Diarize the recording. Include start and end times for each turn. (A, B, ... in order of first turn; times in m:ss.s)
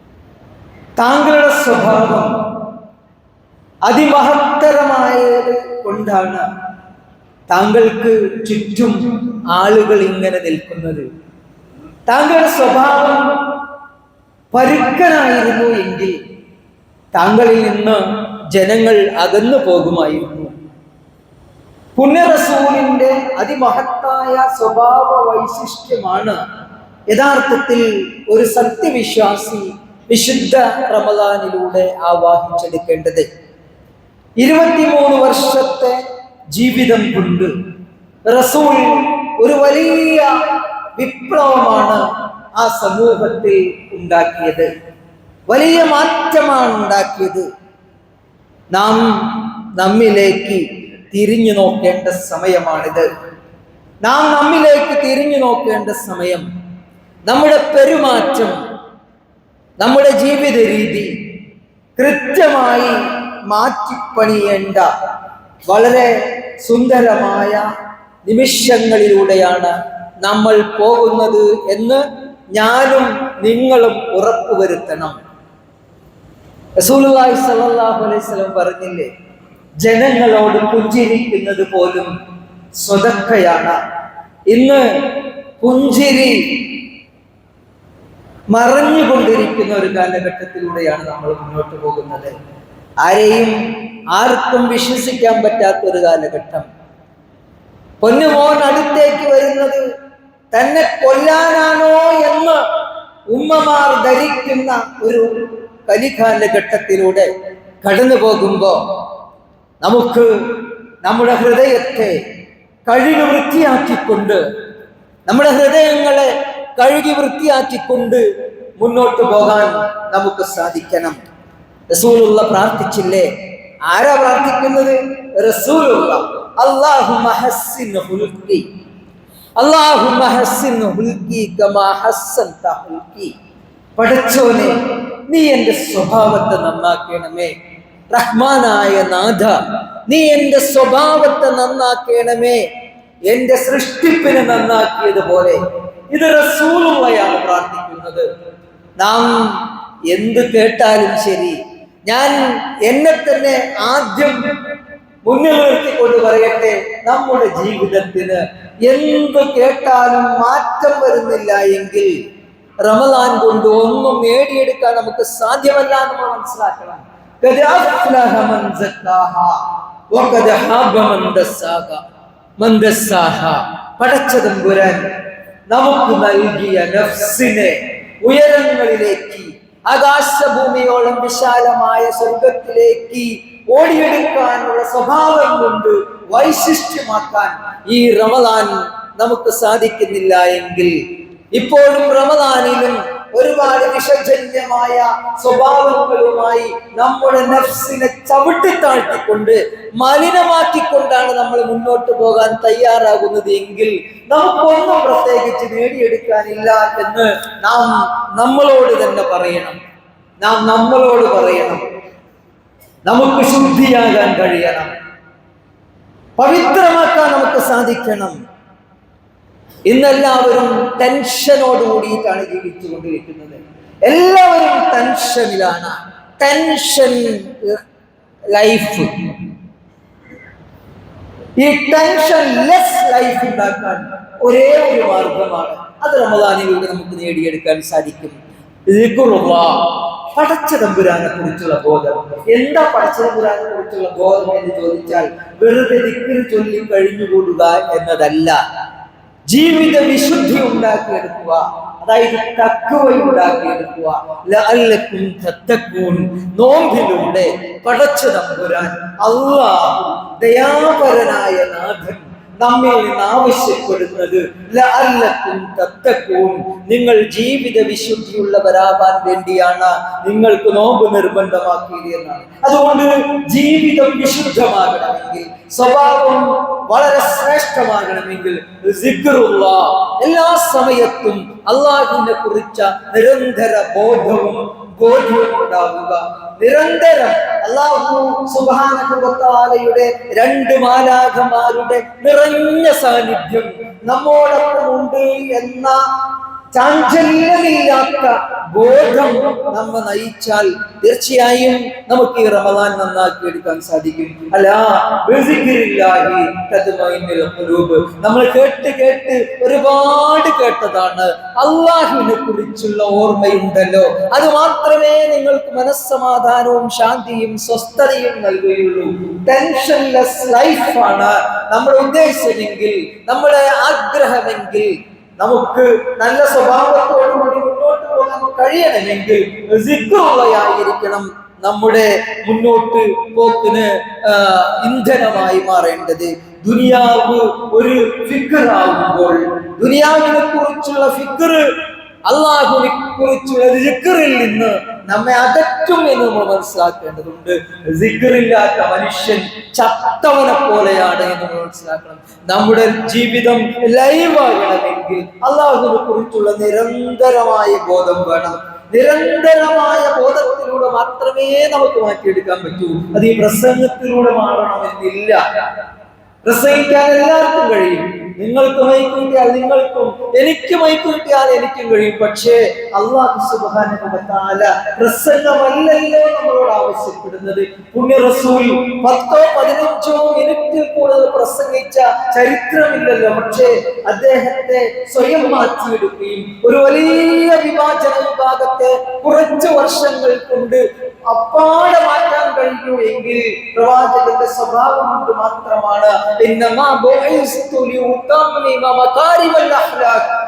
0:01.0-0:02.4 A
0:03.8-0:06.4 A
0:07.5-0:11.0 A
0:12.1-0:13.6 A
0:14.5-0:16.2 A
0:17.1-0:20.5 A
0:22.0-0:26.4 A
0:27.1-0:33.3 A
0:34.4-0:36.0 A
0:36.5-0:37.5 A
0:38.3-0:40.3 A
0:41.0-0:42.0 A
0:42.5-0:44.7 A
0:45.5-0:47.4 A
0:48.7-0:53.1 A
0:54.0-0:56.4 A
0:57.2-0:58.6 A
0:59.8-1:01.1 A
1:02.0-1:02.9 A
1:03.5-1:04.9 A
1:05.6-1:07.6 A
1:08.2-1:09.7 A
1:10.2-1:12.0 A
1:12.5-1:15.2 A
1:16.8-1:19.1 A
1:19.8-1:22.1 A
1:22.8-1:23.8 A
1:24.5-1:26.8 A
1:28.5-1:32.3 A
1:33.0-1:33.6 A
1:34.1-1:36.6 A
1:38.0-1:39.8 A
1:40.5-1:42.6 A
1:43.3-1:47.3 A
1:47.8-1:48.8 A
1:49.8-1:50.3 A
1:51.0-1:52.2 A
1:52.8-1:54.4 A
1:55.3-1:58.2 A
1:58.8-2:01.2 A
2:01.9-2:03.3 A
2:03.8-2:08.6 A
2:09.6-2:13.3 A
2:14.0-2:17.5 A
2:18.1-2:22.7 A
2:23.3-2:25.6 A
2:26.1-2:28.3 A
2:29.0-2:34.4 A
2:35.2-2:42.2 A
2:42.8-2:49.6 A
2:50.1-2:52.0 A
2:52.6-2:55.1 A
2:55.7-3:10.9 A
3:11.5-3:29.8 A
3:30.4-3:31.8 A
3:33.0-3:34.9 A
3:36.4-3:38.4 A
3:39.9-3:47.8 A
3:48.5-3:49.1 A
3:51.6-3:58.4 A
3:58.9-4:08.6 A
4:09.5-4:56.0 A
4:56.7-5:41.6 A
5:42.2-6:05.4 A
6:06.4-6:40.3 A